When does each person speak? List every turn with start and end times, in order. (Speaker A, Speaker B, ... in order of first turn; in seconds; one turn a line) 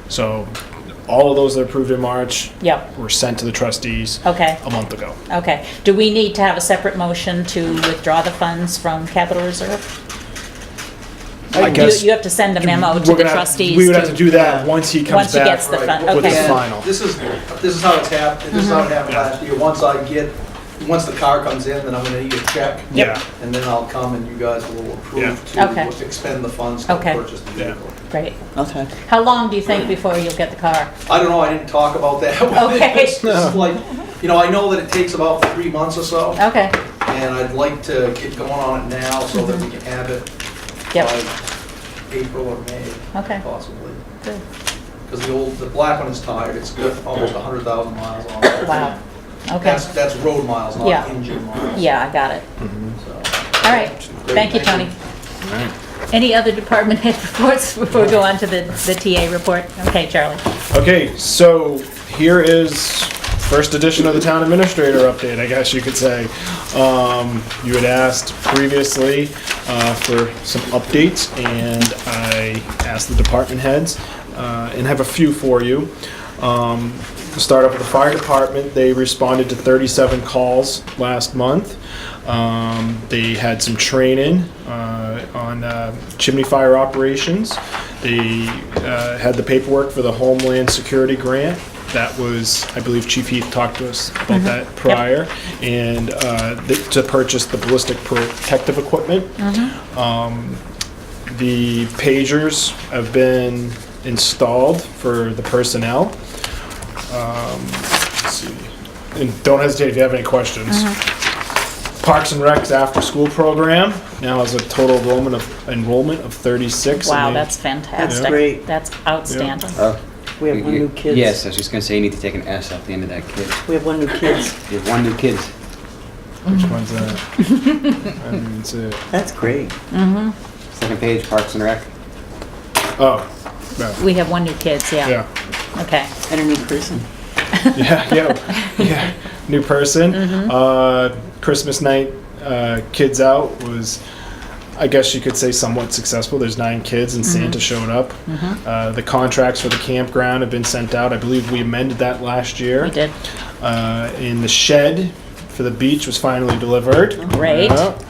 Speaker A: 0.1-0.5
Speaker A: 1.1-5.2
Speaker B: 2.6-2.9
Speaker B: 4.2-4.6
Speaker B: 5.3-9.8
Speaker A: 11.5-16.9
Speaker C: 11.6-11.8
Speaker B: 11.6-14.3
Speaker C: 14.3-14.7
Speaker B: 15.0-16.6
Speaker D: 15.6-27.9
Speaker B: 18.5-18.9
Speaker A: 22.9-23.2
Speaker B: 25.6-25.9
Speaker B: 26.9-27.2
Speaker C: 28.6-28.9
Speaker B: 29.1-30.9
Speaker D: 31.1-36.4
Speaker B: 32.5-33.2
Speaker A: 33.2-33.6
Speaker B: 36.4-36.8
Speaker D: 37.0-40.3
Speaker D: 40.9-41.3
Speaker D: 42.1-44.0
Speaker B: 43.1-43.4
Speaker D: 45.1-48.9
Speaker B: 48.6-49.8
Speaker D: 49.6-51.8
Speaker B: 50.8-51.1
Speaker B: 51.7-52.4
Speaker A: 52.6-53.0
Speaker D: 53.0-54.9
Speaker B: 53.6-54.9
Speaker A: 55.4-55.7
Speaker B: 56.1-60.4
Speaker A: 60.7-100.6
Speaker B: 94.3-95.0
Speaker B: 99.4-99.8
Speaker A: 101.3-106.2
Speaker A: 107.1-110.9
Speaker B: 110.7-111.0
Speaker A: 112.0-117.5
Speaker B: 117.0-119.8
Speaker C: 118.0-118.6
Speaker A: 118.1-118.4
Speaker A: 119.3-119.6
Speaker E: 119.8-123.6
Speaker C: 120.4-121.4
Speaker C: 123.7-124.6
Speaker E: 124.6-125.5
Speaker A: 126.5-127.3
Speaker B: 127.4-128.1
Speaker A: 128.1-129.0
Speaker C: 129.1-129.7
Speaker B: 129.9-130.3
Speaker E: 130.7-131.9
Speaker A: 133.0-134.0
Speaker B: 133.9-135.2
Speaker B: 135.8-136.1
Speaker C: 136.3-137.1
Speaker A: 137.7-144.0
Speaker B: 140.1-140.5
Speaker A: 144.8-153.0
Speaker B: 147.2-147.6
Speaker B: 148.3-148.6
Speaker B: 152.8-153.1
Speaker A: 153.6-158.0
Speaker B: 157.3-157.8